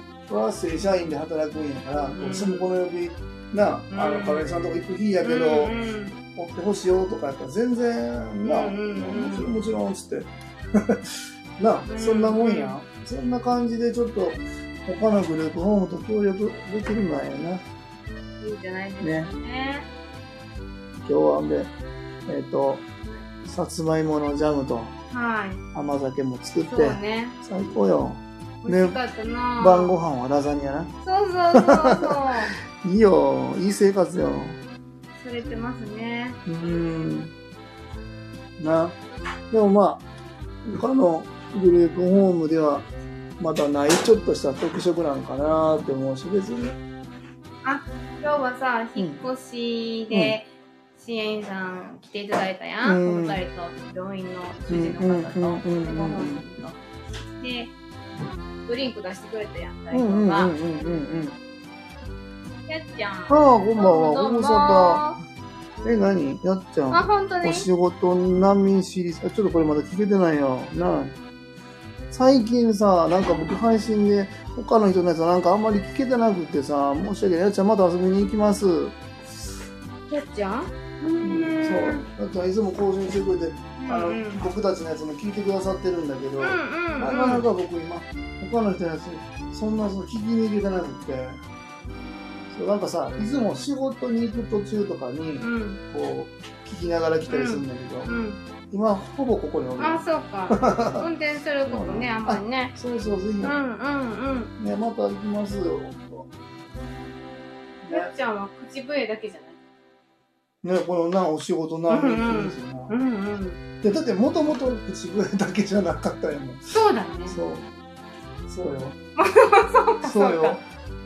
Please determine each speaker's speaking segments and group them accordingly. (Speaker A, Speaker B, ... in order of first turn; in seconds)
Speaker A: 0.3-5.8, 6.3-17.6, 19.0-19.3, 21.0-21.7, 22.3-22.9, 23.4-24.9, 25.7-29.0, 29.6-30.9, 31.5-34.6, 36.5-37.3, 38.6-39.0, 39.5-40.0, 40.6-42.9, 43.4-46.8, 50.1-50.4, 52.8-53.4, 54.7-56.4, 59.9-61.4, 63.3-65.0, 65.8-71.1, 72.1-79.0, 81.2-91.4, 92.5-98.1, 98.7-101.1, 101.7-103.6, 104.6-106.3, 107.8-108.1, 110.6-112.9, 113.8-116.7, 117.3-117.7, 118.5-119.0, 120.0-120.6
Speaker B: 2.1-2.7, 3.9-4.4, 5.2-6.2, 8.4-9.5, 11.9-12.8, 18.4-19.9, 25.1-25.6, 26.7-27.4, 28.6-30.0, 31.0-32.5, 35.2-36.4, 47.6-56.8, 57.4-57.7, 58.6-60.5, 62.7-65.2, 66.9-67.7, 80.1-82.1, 83.8-84.4, 86.4-87.4, 95.4-95.8, 97.3-98.4, 99.8-102.8, 103.4-104.5, 107.9-109.6, 111.9-113.6, 116.7-117.4, 119.2-120.6